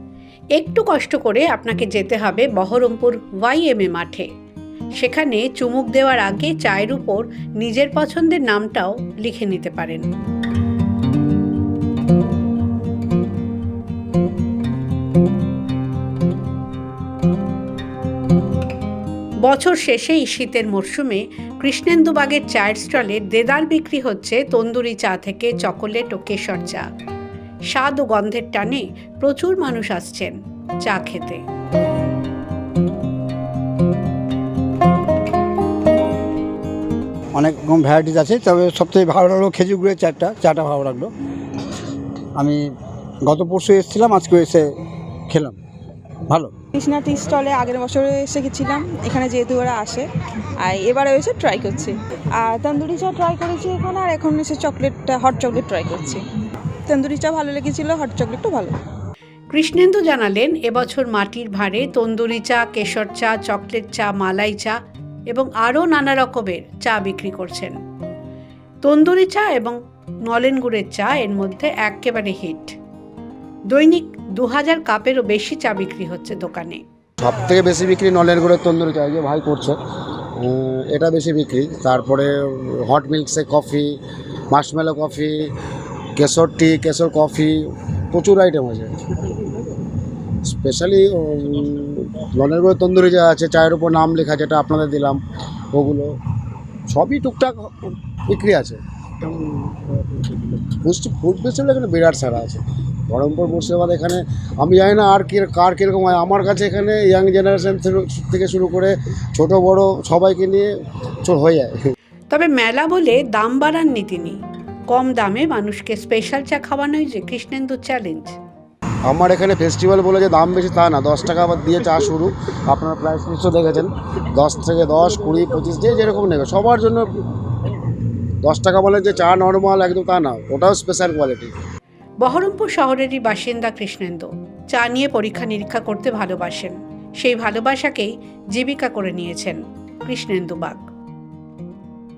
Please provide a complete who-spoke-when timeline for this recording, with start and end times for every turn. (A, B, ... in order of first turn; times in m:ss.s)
0:00.6-0:04.3 A
0:05.0-0:10.0 A
0:19.4-0:26.8 A
0:27.7-0:31.4 A
0:37.3-0:41.1 B
0:42.4-0:42.7 B
0:43.2-0:44.7 B
0:45.3-0:45.6 B
0:46.3-0:46.5 B
0:46.8-0:50.1 C
0:50.6-0:56.2 C
0:56.9-0:58.8 C
0:59.5-1:04.8 A
1:05.3-1:07.8 A
1:08.8-1:12.8 A
1:13.7-1:16.8 A
1:17.2-1:19.8 D
1:20.4-1:24.0 D
1:24.5-1:25.5 D
1:26.2-1:29.5 D
1:30.4-1:35.2 D
1:35.7-1:36.1 D
1:36.9-1:50.7 D
1:51.2-1:51.8 D
1:52.3-1:54.4 A
1:54.9-1:58.4 A
1:59.1-2:07.1 D
2:08.4-2:11.5 D
2:12.2-2:20.8 A